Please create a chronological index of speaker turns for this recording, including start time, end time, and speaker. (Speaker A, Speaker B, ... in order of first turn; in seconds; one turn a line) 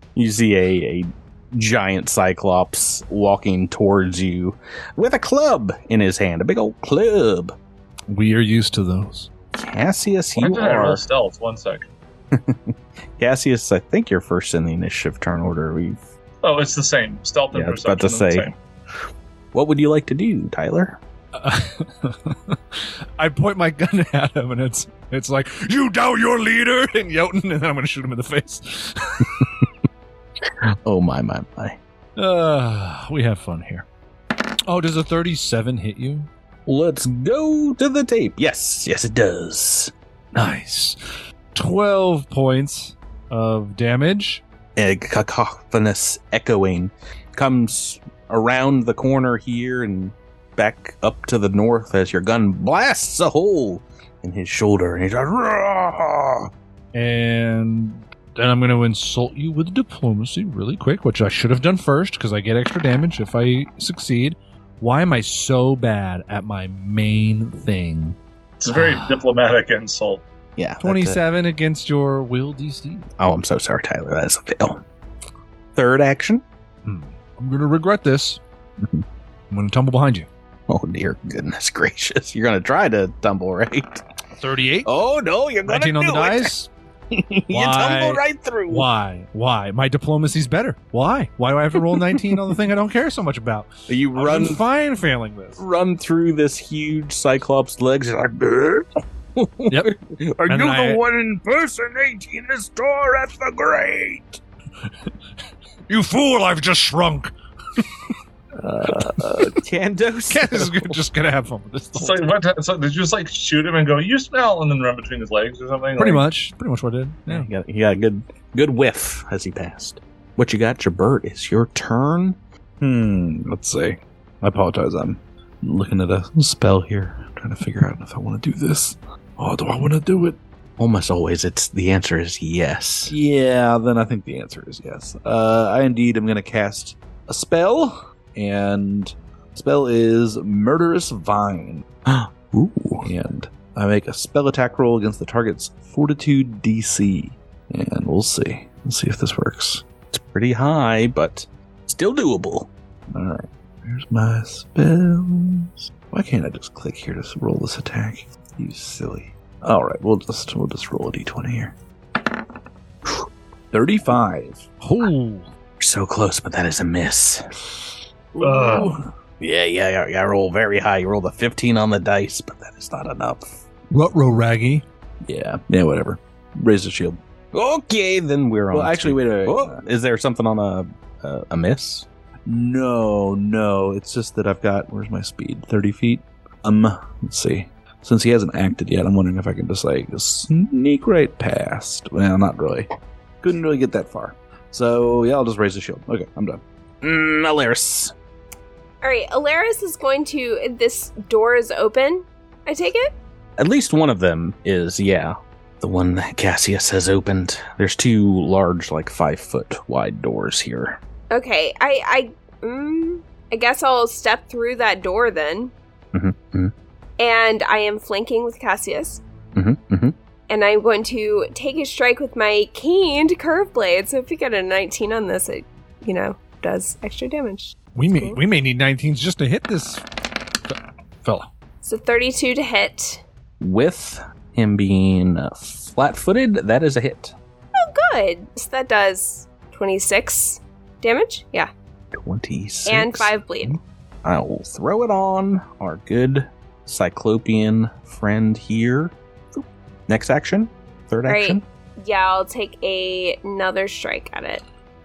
Speaker A: 0.1-7.5
Speaker B: 8.1-9.3
Speaker A: 9.5-11.0
Speaker C: 10.3-11.9
Speaker A: 12.3-16.0
Speaker C: 16.4-18.5
Speaker A: 17.5-18.5
Speaker A: 19.5-21.0
Speaker B: 21.3-29.5
Speaker A: 30.8-31.8
Speaker B: 32.1-33.9
Speaker B: 34.7-36.3
Speaker A: 36.6-39.9
Speaker B: 40.3-41.0
Speaker B: 41.5-44.4
Speaker A: 44.8-56.5
Speaker B: 56.9-68.2
Speaker C: 68.6-70.2
Speaker B: 68.7-69.2
Speaker A: 70.6-71.2
Speaker B: 70.8-73.1
Speaker A: 73.2-74.8
Speaker A: 75.8-76.4
Speaker B: 76.8-78.4
Speaker B: 79.5-80.3
Speaker A: 80.7-84.0
Speaker B: 84.4-84.9
Speaker A: 84.8-86.5
Speaker B: 85.6-86.7
Speaker A: 87.1-88.9
Speaker B: 87.5-95.6
Speaker A: 93.9-94.6
Speaker A: 95.6-104.4
Speaker B: 100.5-101.0
Speaker B: 105.9-107.9
Speaker A: 108.6-111.0
Speaker B: 108.8-109.5
Speaker B: 110.3-112.4
Speaker C: 111.9-116.2
Speaker B: 116.0-117.5
Speaker A: 117.3-122.4
Speaker D: 122.8-130.4
Speaker A: 130.8-133.1
Speaker D: 133.1-141.8
Speaker A: 142.1-143.1
Speaker D: 143.0-149.8
Speaker A: 150.1-152.7
Speaker D: 153.1-161.8
Speaker D: 163.7-164.7
Speaker B: 164.8-165.5
Speaker A: 165.8-167.5
Speaker D: 168.3-169.1
Speaker C: 168.4-169.0
Speaker A: 169.4-173.5
Speaker B: 173.9-174.8
Speaker D: 175.2-177.2
Speaker A: 177.5-182.1
Speaker D: 178.7-179.8
Speaker D: 182.4-192.9
Speaker D: 193.4-196.6
Speaker A: 197.0-198.1
Speaker E: 199.0-203.1
Speaker A: 203.6-211.0
Speaker E: 211.3-215.7
Speaker A: 216.1-216.7
Speaker E: 217.2-219.2
Speaker A: 219.6-220.1
Speaker E: 220.5-228.4
Speaker B: 227.9-230.1
Speaker B: 230.7-231.5
Speaker E: 231.8-233.2
Speaker A: 233.6-237.3
Speaker E: 237.8-241.7
Speaker A: 242.1-251.6
Speaker E: 242.8-243.8
Speaker E: 251.3-254.6